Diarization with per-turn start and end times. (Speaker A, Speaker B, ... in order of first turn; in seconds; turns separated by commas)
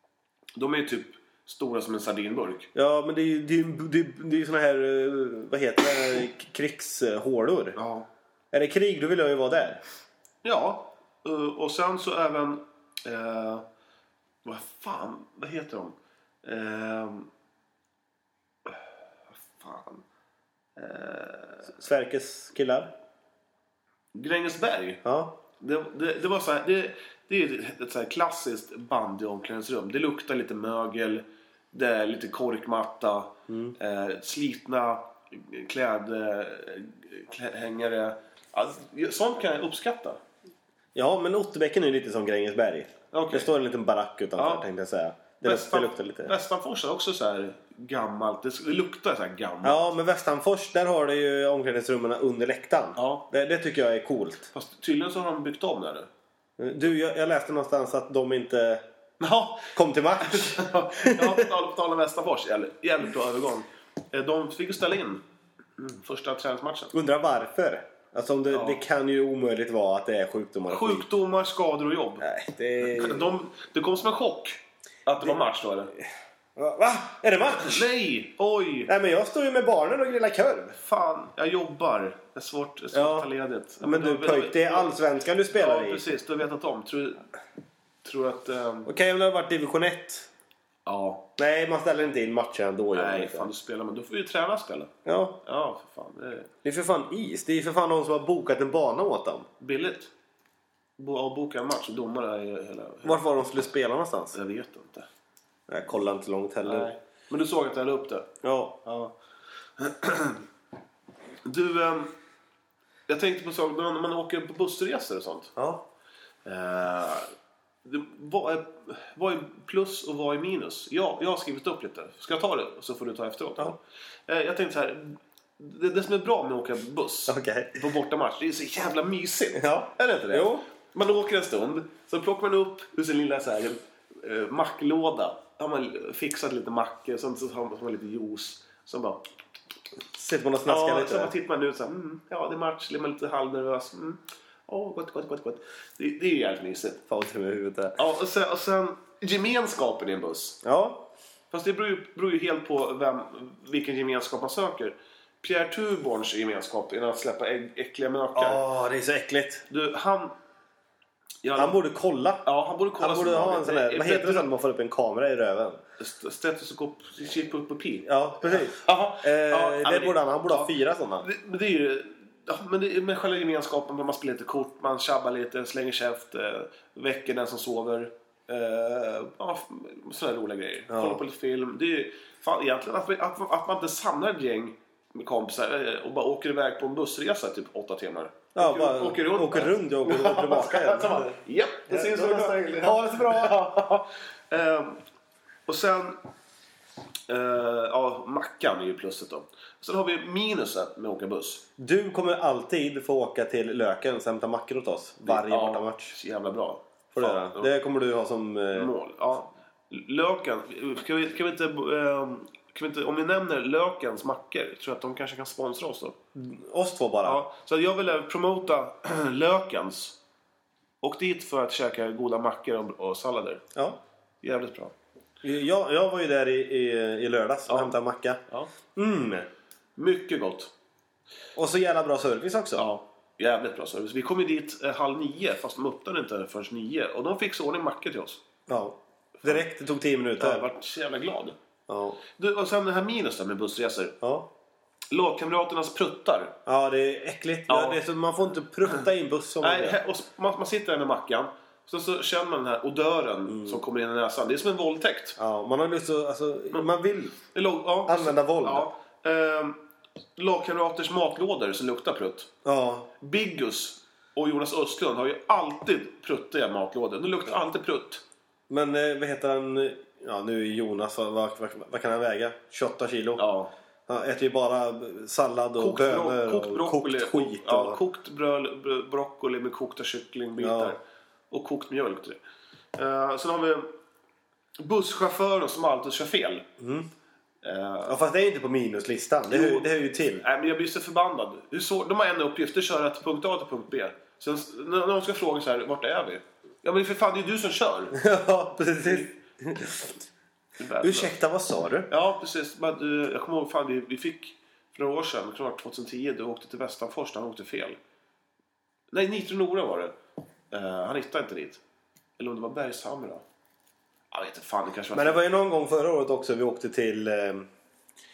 Speaker A: 0.6-2.7, Speaker B: 2.7-7.8, Speaker A: 7.8-8.1, Speaker B: 8.5-9.8, Speaker A: 10.4-13.7, Speaker A: 14.4-17.3, Speaker A: 19.4-20.0, Speaker A: 20.8-21.7, Speaker B: 21.7-22.9, Speaker A: 24.1-25.0, Speaker B: 25.0-25.3, Speaker A: 25.6-40.2, Speaker B: 33.5-33.8, Speaker B: 40.9-46.3, Speaker A: 43.1-43.5, Speaker A: 44.4-44.6, Speaker A: 45.4-49.9, Speaker B: 49.6-54.5, Speaker A: 53.0-53.3, Speaker A: 54.5-56.1, Speaker B: 56.6-58.8, Speaker A: 59.2-65.2, Speaker B: 59.7-61.5, Speaker A: 65.8-66.9, Speaker B: 66.9-71.0, Speaker A: 68.5-68.8, Speaker A: 70.7-72.3, Speaker B: 72.2-73.3, Speaker A: 72.8-75.9, Speaker B: 76.5-77.9, Speaker A: 77.6-78.9, Speaker B: 78.9-80.8, Speaker A: 80.8-84.9, Speaker B: 82.9-83.3, Speaker B: 83.8-86.1, Speaker A: 85.5-87.2, Speaker A: 88.0-88.9, Speaker B: 88.8-90.3, Speaker A: 90.8-91.3, Speaker B: 91.4-93.5, Speaker A: 92.9-94.9, Speaker B: 95.0-95.4, Speaker A: 95.4-96.5, Speaker B: 96.6-99.5, Speaker A: 99.6-100.1, Speaker A: 101.0-103.2, Speaker B: 103.0-104.4, Speaker A: 104.3-105.1, Speaker B: 105.7-106.9, Speaker A: 106.6-108.3, Speaker B: 108.4-109.1, Speaker A: 109.8-110.4, Speaker A: 111.4-112.1, Speaker A: 113.1-115.5, Speaker B: 115.5-115.8, Speaker A: 116.4-117.3, Speaker A: 117.8-139.2, Speaker B: 127.3-127.9, Speaker B: 129.5-130.7, Speaker B: 140.1-141.3, Speaker A: 140.7-147.0, Speaker B: 147.1-148.0, Speaker A: 148.0-150.6, Speaker B: 150.6-151.1, Speaker A: 151.5-158.6, Speaker B: 158.3-159.7, Speaker A: 159.7-160.3, Speaker A: 161.4-161.8, Speaker B: 161.6-162.5, Speaker A: 162.4-164.4, Speaker B: 163.0-165.8, Speaker A: 166.0-195.0, Speaker B: 168.0-171.3, Speaker B: 180.9-181.2, Speaker B: 188.5-191.3, Speaker B: 191.9-193.8, Speaker A: 195.7-196.2, Speaker A: 197.3-201.7, Speaker B: 201.8-206.1, Speaker A: 205.2-207.7, Speaker B: 207.1-208.9, Speaker A: 208.7-216.2, Speaker B: 216.3-217.4, Speaker A: 217.2-220.2, Speaker A: 221.0-223.6, Speaker A: 224.4-224.9, Speaker B: 225.4-228.4, Speaker A: 227.7-227.9, Speaker B: 228.9-229.5, Speaker A: 230.0-230.7, Speaker B: 231.5-232.8, Speaker A: 232.8-238.4, Speaker B: 238.7-240.7, Speaker A: 240.4-241.6, Speaker B: 241.9-242.2, Speaker A: 242.4-244.2, Speaker B: 244.2-244.5, Speaker A: 245.1-246.6, Speaker B: 246.7-250.0, Speaker A: 247.7-248.0, Speaker A: 249.6-255.4, Speaker B: 253.5-253.8, Speaker B: 255.4-257.4, Speaker A: 257.5-259.8, Speaker B: 258.1-258.9, Speaker A: 260.4-262.5, Speaker B: 262.6-263.1, Speaker A: 263.2-268.2, Speaker B: 268.7-273.4, Speaker A: 273.4-273.7, Speaker B: 274.1-278.0, Speaker A: 275.8-281.0, Speaker B: 280.6-280.9, Speaker A: 281.5-282.4, Speaker A: 282.9-283.9, Speaker A: 284.8-286.7, Speaker B: 286.8-287.1, Speaker A: 287.6-288.2, Speaker B: 288.1-290.4, Speaker A: 289.5-298.2, Speaker B: 298.1-300.1, Speaker A: 300.8-301.4, Speaker B: 301.0-302.1, Speaker A: 302.1-308.0, Speaker A: 309.1-310.2, Speaker A: 310.7-311.8, Speaker A: 312.4-313.4, Speaker A: 314.3-315.4, Speaker B: 315.1-317.7